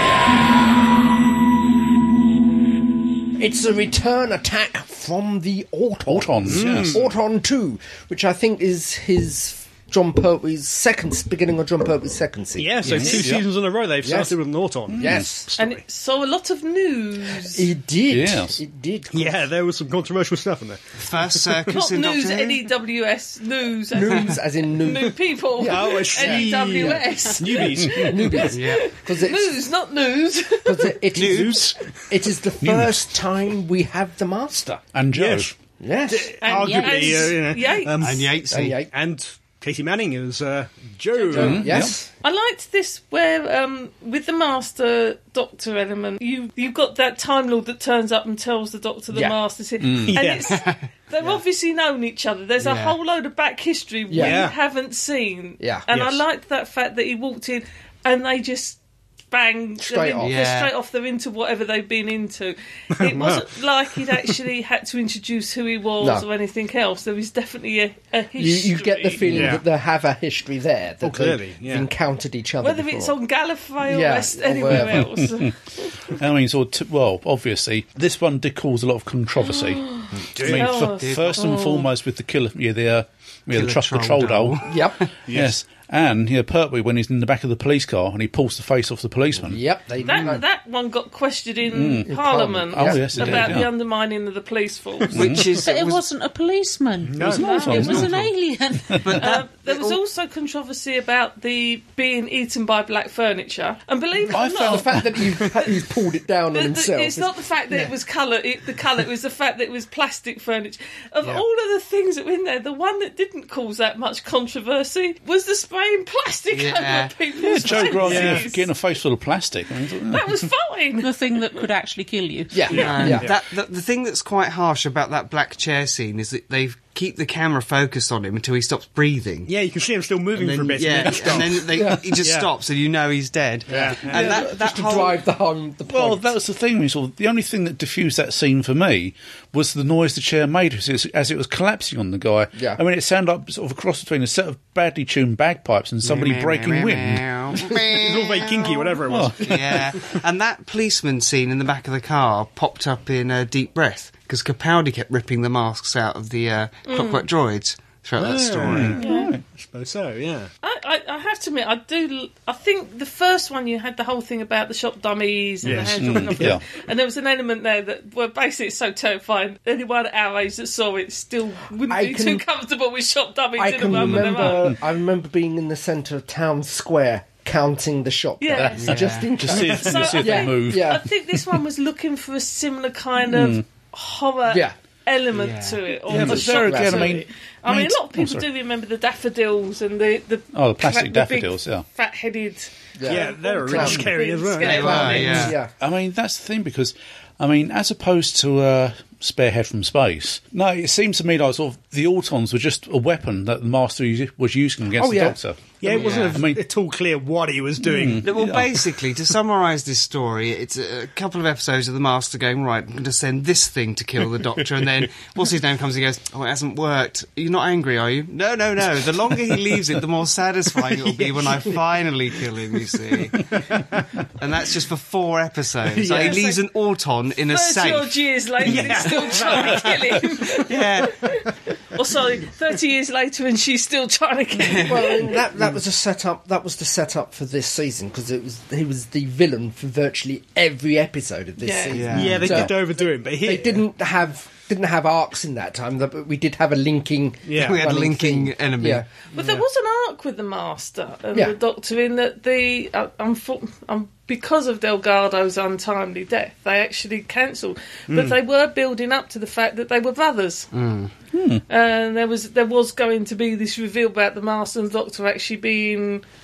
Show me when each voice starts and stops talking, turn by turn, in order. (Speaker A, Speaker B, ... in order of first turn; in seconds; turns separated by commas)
Speaker A: 3.4-13.3, Speaker B: 6.1-7.0, Speaker C: 6.5-7.0, Speaker C: 12.6-15.8, Speaker B: 12.9-13.4, Speaker A: 14.0-14.3, Speaker B: 14.9-15.3, Speaker A: 14.9-15.5, Speaker D: 15.6-17.7, Speaker A: 17.4-19.5, Speaker B: 18.1-18.6, Speaker C: 19.1-21.6, Speaker E: 21.0-22.6, Speaker D: 21.7-31.0, Speaker A: 23.9-29.6, Speaker C: 25.6-28.4, Speaker E: 28.5-28.9, Speaker A: 30.6-34.8, Speaker E: 31.1-31.7, Speaker C: 31.2-31.9, Speaker B: 32.6-33.0, Speaker B: 34.9-35.5, Speaker C: 35.1-35.5, Speaker A: 35.8-36.3, Speaker C: 36.1-41.8, Speaker D: 36.4-38.0, Speaker F: 36.5-37.0, Speaker E: 38.0-38.8, Speaker A: 38.5-38.9, Speaker D: 41.1-58.8, Speaker B: 41.3-41.9, Speaker A: 41.3-42.1, Speaker B: 49.8-50.2, Speaker C: 50.0-50.6, Speaker E: 50.5-50.9, Speaker E: 52.6-53.0, Speaker A: 54.1-54.4, Speaker C: 54.1-54.5, Speaker A: 55.6-55.9, Speaker C: 55.9-56.2, Speaker D: 59.3-69.5, Speaker A: 59.8-60.4, Speaker E: 60.2-60.7, Speaker C: 62.9-64.3, Speaker A: 66.0-66.2, Speaker A: 68.4-73.2, Speaker C: 69.3-69.6, Speaker C: 71.0-71.9, Speaker D: 72.6-76.1, Speaker A: 73.8-75.0, Speaker B: 74.7-75.5, Speaker B: 76.1-84.7, Speaker D: 79.5-81.8, Speaker C: 80.3-80.8, Speaker E: 80.4-81.5, Speaker E: 83.5-85.1, Speaker A: 84.7-85.0, Speaker C: 85.2-85.6, Speaker B: 85.3-89.6, Speaker A: 89.5-90.4, Speaker D: 90.0-95.3, Speaker C: 90.1-90.3, Speaker B: 91.7-92.1, Speaker A: 92.0-93.6, Speaker B: 92.7-93.7, Speaker B: 95.1-95.5, Speaker E: 95.1-96.0, Speaker F: 95.6-99.1, Speaker C: 97.1-97.8, Speaker B: 97.2-98.3, Speaker D: 97.3-98.1, Speaker B: 98.9-99.2, Speaker E: 99.0-100.0, Speaker D: 99.2-105.6, Speaker A: 104.3-107.9, Speaker B: 104.3-105.0, Speaker D: 106.5-118.7, Speaker E: 116.5-117.2, Speaker B: 117.4-120.4, Speaker C: 117.9-118.5, Speaker D: 120.0-121.1, Speaker F: 121.0-122.8, Speaker A: 122.5-123.3, Speaker C: 122.7-123.4, Speaker E: 122.7-129.5, Speaker C: 129.5-132.5, Speaker E: 130.3-135.2, Speaker A: 131.7-132.1, Speaker C: 133.7-134.4, Speaker A: 133.7-136.3, Speaker B: 135.9-147.4, Speaker A: 142.6-142.8, Speaker E: 146.0-159.0, Speaker C: 147.9-150.1, Speaker B: 149.1-149.6, Speaker D: 156.9-157.2, Speaker C: 158.2-160.5, Speaker B: 158.7-159.4, Speaker D: 159.0-159.3, Speaker D: 160.6-174.7, Speaker C: 165.6-166.6, Speaker B: 165.7-166.6, Speaker A: 171.9-172.4, Speaker A: 173.6-181.0, Speaker D: 178.4-195.6, Speaker E: 178.8-179.3, Speaker B: 179.3-181.0, Speaker B: 183.2-183.6, Speaker A: 184.5-184.7, Speaker E: 185.3-185.8, Speaker B: 186.1-188.4, Speaker A: 186.1-187.2, Speaker B: 190.5-191.8, Speaker A: 193.0-195.7, Speaker C: 193.1-195.5, Speaker E: 194.6-195.6, Speaker B: 195.8-206.6, Speaker A: 205.0-205.4, Speaker C: 205.8-208.3, Speaker E: 205.9-206.4, Speaker B: 207.8-208.9, Speaker E: 208.2-223.4, Speaker C: 220.9-221.8, Speaker C: 223.4-224.1, Speaker E: 224.4-229.8, Speaker C: 225.9-226.6, Speaker D: 227.5-235.4, Speaker C: 228.6-230.6, Speaker E: 230.6-231.2, Speaker E: 234.6-235.1, Speaker A: 234.8-249.1, Speaker D: 241.6-242.1, Speaker E: 241.9-242.6, Speaker C: 242.1-243.8, Speaker C: 247.5-247.8, Speaker E: 247.6-249.0, Speaker D: 249.3-260.7, Speaker C: 258.1-258.4, Speaker E: 260.7-261.1, Speaker B: 261.3-261.6, Speaker D: 261.7-266.2